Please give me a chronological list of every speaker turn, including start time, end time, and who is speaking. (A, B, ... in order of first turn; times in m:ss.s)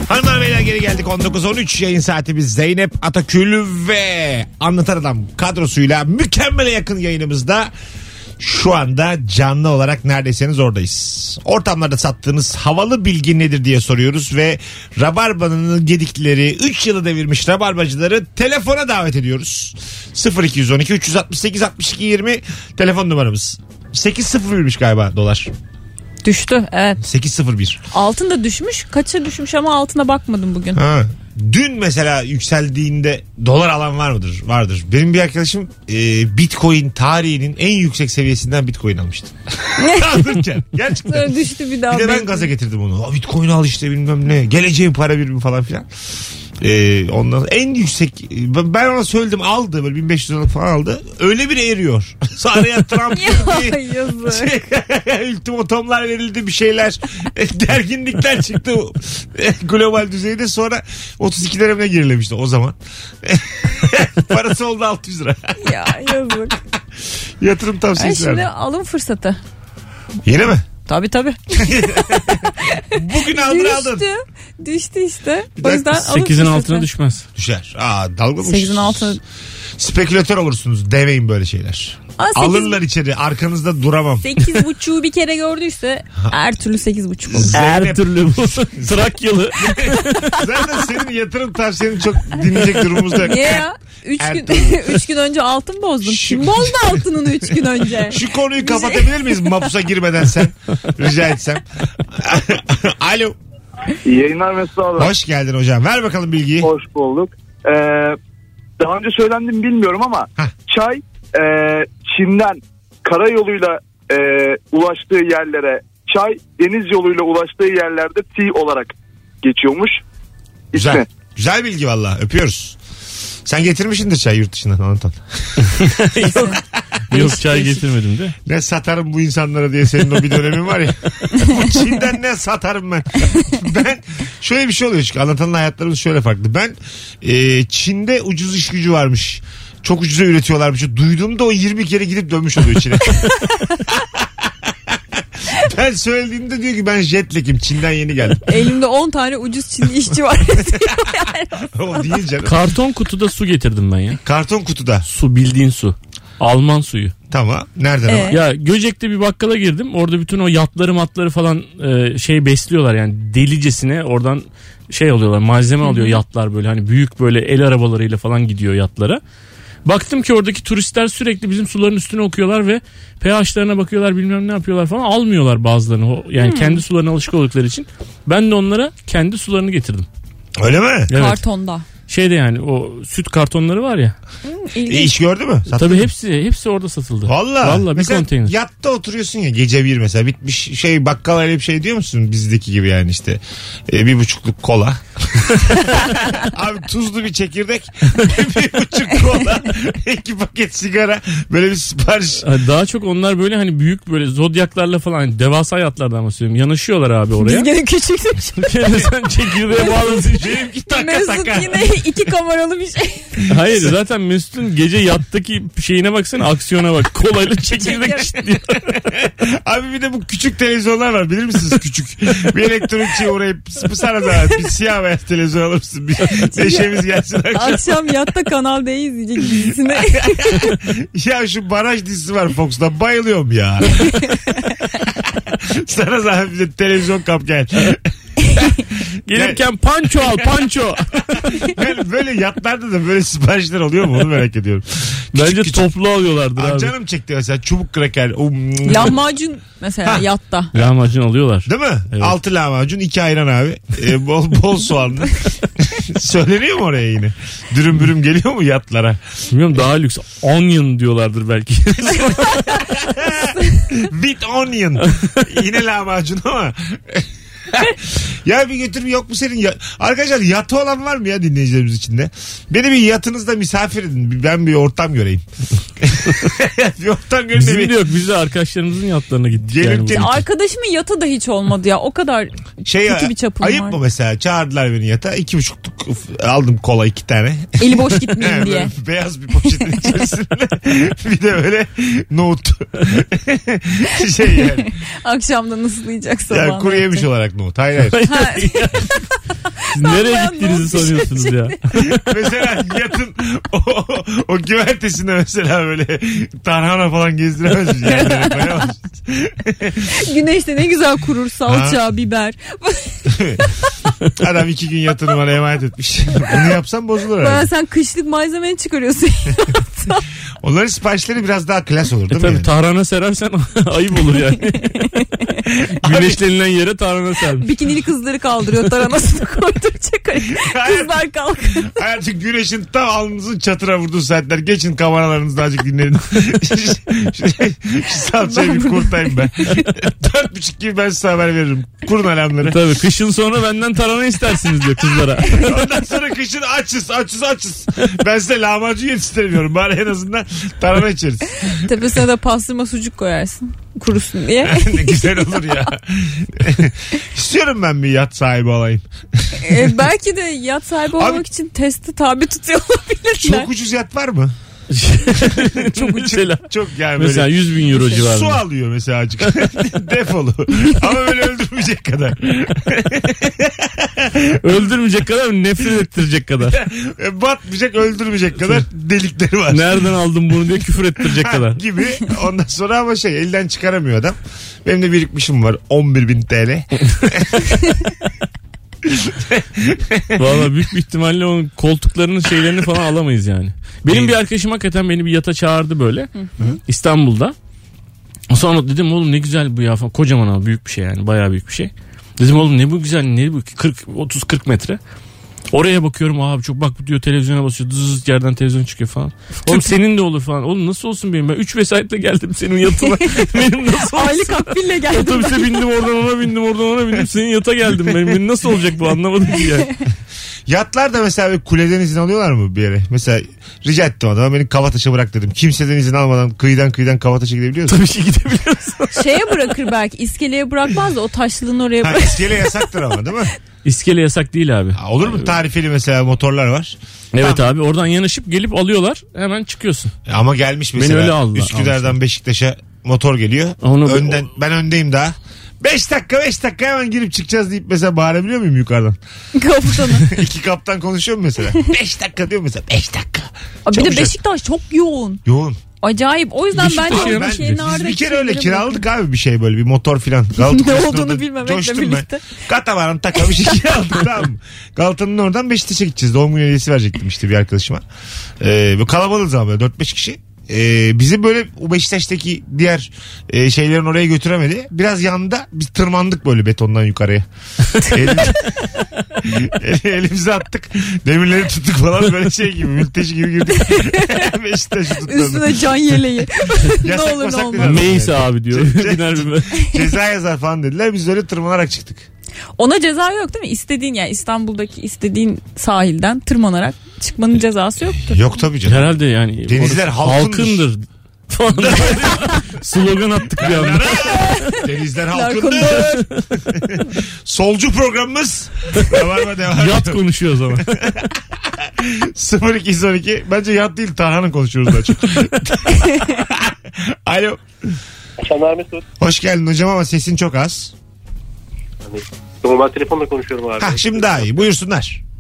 0:00.1-0:07.7 A
0:08.4-0:25.5 A
0:26.2-0:27.0 B
0:27.0-0:27.8 A
0:27.9-0:30.8 B
0:30.7-0:45.9 A
0:39.8-0:40.3 B
0:41.0-0:42.5 B
0:46.6-1:06.0 A
0:53.1-0:54.5 B
1:05.6-1:06.6 B
1:07.4-1:08.5 A
1:08.0-1:09.4 B
1:10.2-1:10.7 A
1:10.9-1:16.9 B
1:11.6-1:14.1 A
1:15.6-1:16.0 A
1:16.0-1:17.3 C
1:17.4-1:19.2 A
1:18.4-1:19.2 B
1:19.8-1:24.3 A
1:22.2-1:22.8 B
1:24.2-1:27.6 B
1:27.3-1:33.7 A
1:27.5-1:30.4 C
1:33.2-1:39.7 B
1:34.2-1:35.0 A
1:36.0-1:43.4 A
1:44.0-1:45.1 D
1:45.0-1:46.7 A
1:46.6-1:48.2 D
1:48.8-2:00.0 D
2:00.7-2:01.1 D
2:00.7-2:02.8 A
2:03.4-2:05.6 A
2:05.7-2:08.3 C
2:06.3-2:06.6 B
2:07.1-2:07.8 B
2:08.5-2:23.7 A
2:25.5-2:28.6 A
2:28.4-2:31.7 B
2:30.4-2:32.6 A
2:32.4-2:34.2 C
2:34.2-2:35.1 A
2:35.1-2:37.1 C
2:37.3-2:38.4 A
2:38.1-2:38.4 B
2:38.3-2:49.2 C
2:45.8-2:46.2 B
2:49.8-3:00.1 C
2:56.4-2:56.8 B
3:00.6-3:01.1 A
3:01.1-3:01.4 C
3:01.1-3:01.9 B
3:02.1-3:04.2 C
3:04.5-3:05.2 B
3:04.8-3:06.1 A
3:05.7-3:08.5 C
3:07.3-3:22.5 A
3:22.4-3:27.7 C
3:27.4-3:28.9 B
3:28.6-3:30.6 C
3:29.7-3:32.1 A
3:29.8-3:30.2 B
3:30.9-3:33.4 B
3:33.5-3:39.0 C
3:33.5-3:33.9 A
3:37.7-3:38.5 B
3:39.0-3:48.0 A
3:46.3-3:47.0 B
3:47.5-3:50.8 B
3:49.9-3:59.6 A
3:59.3-4:01.7 C
4:00.2-4:00.6 A
4:01.6-4:05.9 A
4:05.3-4:06.9 C
4:06.6-4:09.2 A
4:08.8-4:10.7 B
4:10.7-4:12.4 C
4:11.6-4:19.2 A
4:19.5-4:22.7 C
4:22.2-4:35.4 A
4:36.0-4:38.1 A
4:37.6-4:40.3 C
4:39.6-4:40.4 A
4:40.1-4:44.0 B
4:42.8-4:54.9 A
4:47.8-4:48.9 B
4:54.7-4:57.3 B
4:56.5-4:58.2 A
4:58.1-4:59.2 C
4:58.3-4:59.3 B
4:59.9-5:01.8 B
4:59.9-5:02.2 C
5:02.2-5:10.1 A
5:08.0-5:08.9 B
5:10.1-5:13.4 B
5:11.7-5:12.0 A
5:13.3-5:13.6 A
5:14.4-5:17.7 A
5:17.4-5:20.3 B
5:20.6-5:22.7 A
5:22.3-5:25.2 C
5:26.0-5:26.4 A
5:26.0-5:27.7 C
5:27.6-5:31.9 B
5:30.5-5:42.8 A
5:38.4-5:39.9 B
5:42.6-5:45.7 C
5:45.5-5:51.9 A
5:51.7-5:55.5 B
5:54.6-5:59.9 A
5:59.6-6:03.7 B
6:01.2-6:01.5 A
6:03.4-6:04.6 A
6:04.9-6:08.6 C
6:05.8-6:14.7 A
6:14.6-6:16.8 C
6:16.7-6:20.1 A
6:19.7-6:21.8 C
6:21.2-6:27.6 A
6:29.0-6:30.6 A
6:30.4-6:36.3 C
6:34.1-6:34.4 A
6:36.4-6:36.7 B
6:36.9-6:37.6 C
6:38.5-6:45.0 C
6:45.7-6:59.9 C
6:53.0-6:55.9 B
7:00.7-7:08.0 A
7:07.9-7:09.5 C
7:09.2-7:12.7 B
7:12.0-7:13.5 A
7:13.8-7:15.6 C
7:15.0-7:17.7 A
7:17.3-7:20.1 C
7:20.3-7:29.2 A
7:21.0-7:22.2 C
7:23.8-7:24.4 C
7:29.6-7:30.4 B
7:30.2-7:34.4 A
7:33.9-7:35.4 B
7:35.5-7:35.8 A
7:36.0-7:39.0 B
7:36.8-7:37.8 C
7:36.8-7:48.0 A
7:40.6-7:42.6 B
7:48.6-7:57.5 A
7:58.0-7:58.7 A
7:59.4-8:05.9 A
8:03.8-8:04.5 B
8:05.2-8:08.1 B
8:07.0-8:12.3 A
8:07.8-8:09.8 C
8:09.8-8:10.0 B
8:12.8-8:18.4 B
8:18.2-8:20.8 A
8:18.9-8:24.8 C
8:21.8-8:22.2 A
8:23.6-8:30.2 A
8:24.3-8:26.2 B
8:25.8-8:26.5 C
8:29.8-8:31.0 C
8:30.8-8:38.0 A
8:38.4-8:39.0 E
8:39.2-8:40.9 A
8:42.0-8:44.7 E
8:43.8-8:45.2 A